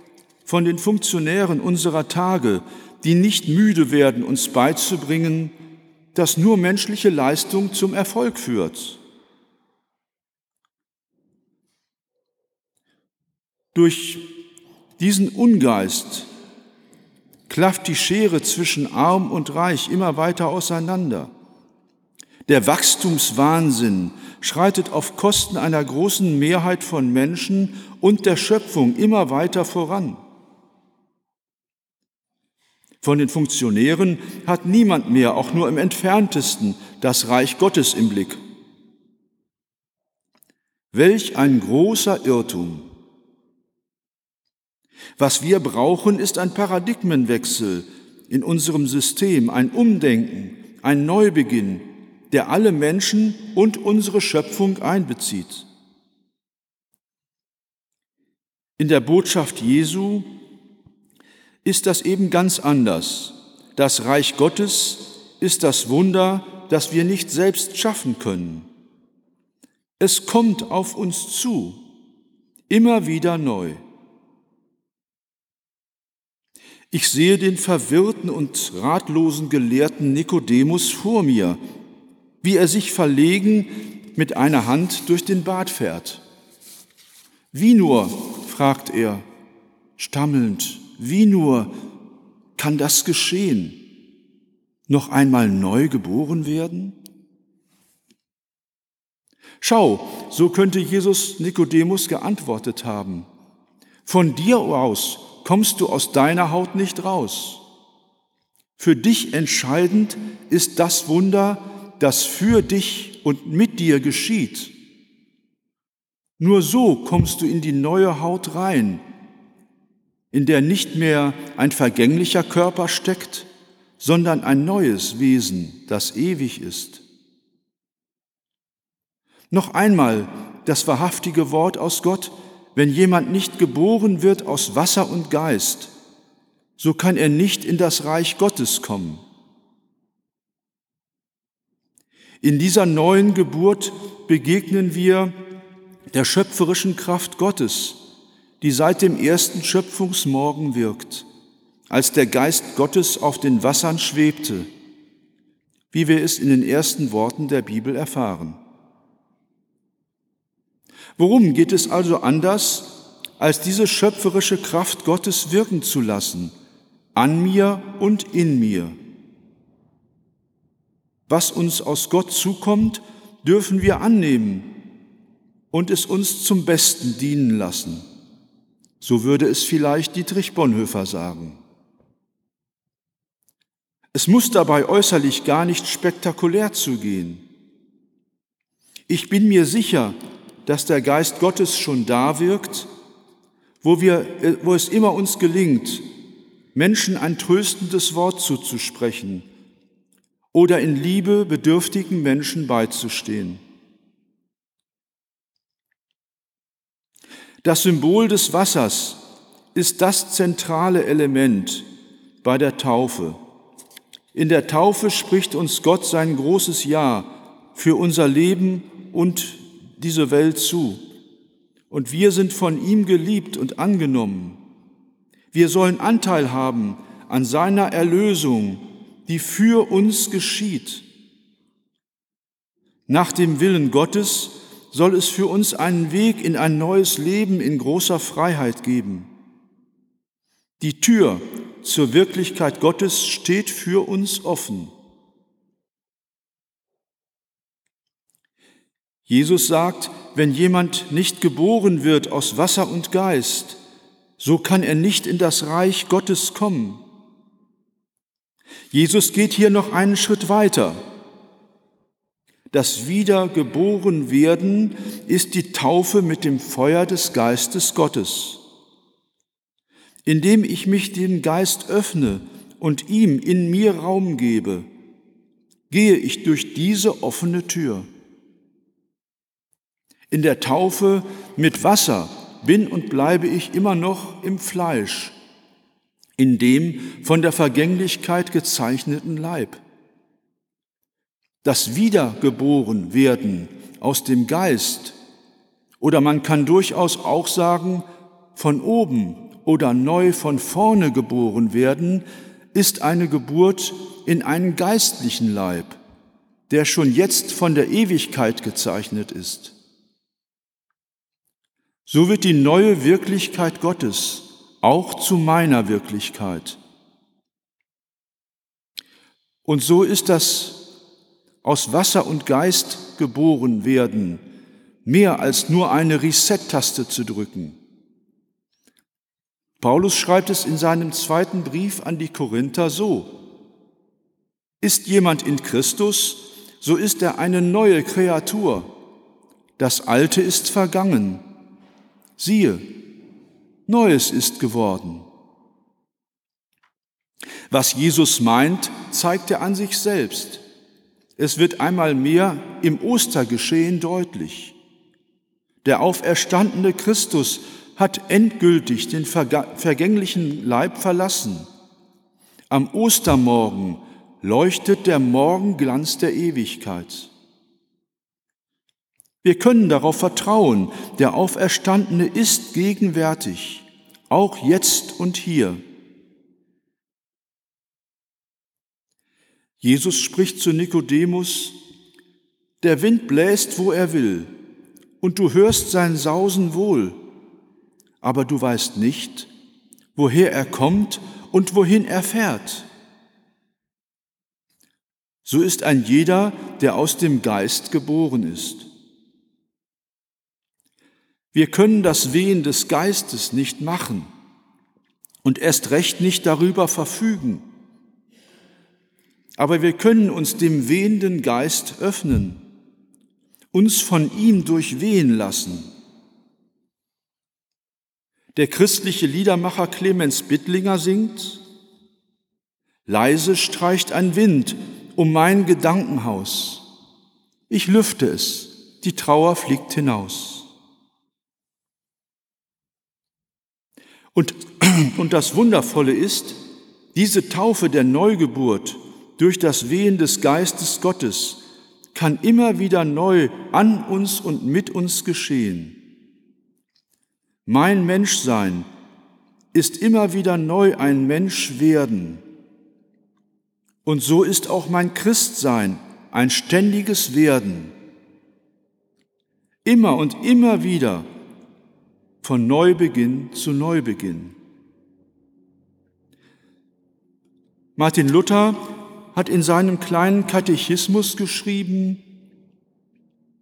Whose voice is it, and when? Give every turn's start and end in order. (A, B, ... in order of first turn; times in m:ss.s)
0:00.4-0:05.5 A
0:06.1-0:09.0 A
0:13.7-0:14.3 A
0:15.0-0:16.3 A
0:17.5-0:21.3 A
0:22.5-0:30.2 A
0:33.0-0:38.4 A
0:40.9-0:42.9 A
0:45.2-0:55.7 A
0:58.8-1:00.3 A
1:01.6-1:08.7 A
1:10.0-1:11.8 A
1:12.7-1:13.8 A
1:16.9-1:21.6 A
1:22.4-1:26.2 A
1:27.5-1:29.2 A
1:30.0-1:31.7 A
1:32.6-1:33.8 A
1:34.9-1:37.0 A
1:39.6-1:43.3 A
1:44.0-1:47.6 A
1:48.8-1:54.7 A
1:56.4-1:59.0 A
2:00.3-2:03.5 A
2:04.0-2:07.0 A
2:09.5-2:15.9 A
2:16.8-2:19.2 A
2:22.4-2:25.3 A
2:26.1-2:28.0 A
2:28.6-2:31.2 A
2:31.9-2:34.7 A
2:35.9-2:38.6 A
2:41.2-2:46.5 A
2:47.1-2:49.0 A
2:51.3-2:54.7 A
2:55.7-2:58.0 A
2:59.0-3:01.6 A
3:04.1-3:07.4 A
3:09.1-3:12.9 A
3:13.8-3:16.1 A
3:16.7-3:19.5 A
3:20.5-3:23.6 A
3:27.6-3:29.2 A
3:29.7-3:31.9 A
3:32.4-3:33.4 A
3:34.3-3:41.0 A
3:41.9-3:44.6 A
3:45.5-3:51.0 A
3:53.1-3:59.3 A
4:00.8-4:04.9 A
4:09.3-4:13.8 A
4:14.4-4:17.0 A
4:18.9-4:21.0 A
4:22.7-4:28.6 A
4:30.2-4:34.9 A
4:35.9-4:38.0 A
4:40.3-4:45.3 A
4:46.4-4:49.8 A
4:51.6-4:55.2 A
4:56.0-5:06.0 A
5:06.7-5:09.7 A
5:12.0-5:16.8 A
5:19.6-5:20.9 A
5:21.6-5:24.4 A
5:25.0-5:27.8 A
5:29.8-5:33.3 A
5:34.8-5:38.9 A
5:39.8-5:41.4 A
5:42.4-5:42.8 A
5:43.9-5:45.2 A
5:47.7-5:50.6 A
5:51.4-5:54.7 A
5:55.8-6:01.6 A
6:02.7-6:07.3 A
6:09.4-6:15.8 A
6:19.8-6:21.8 A
6:22.8-6:24.5 A
6:25.2-6:27.2 A
6:28.2-6:29.5 A
6:30.1-6:32.9 A
6:35.4-6:38.9 A
6:41.5-6:44.3 A
6:45.4-6:47.6 A
6:49.6-6:52.6 A
6:53.7-6:55.9 A
6:58.5-7:01.6 A
7:03.1-7:06.8 A
7:07.7-7:10.7 A
7:14.3-7:16.6 A
7:17.1-7:26.0 A
7:27.6-7:28.9 A
7:29.7-7:32.4 A
7:34.0-7:37.9 A
7:39.8-7:41.3 A
7:42.4-7:44.5 A
7:48.0-7:52.2 A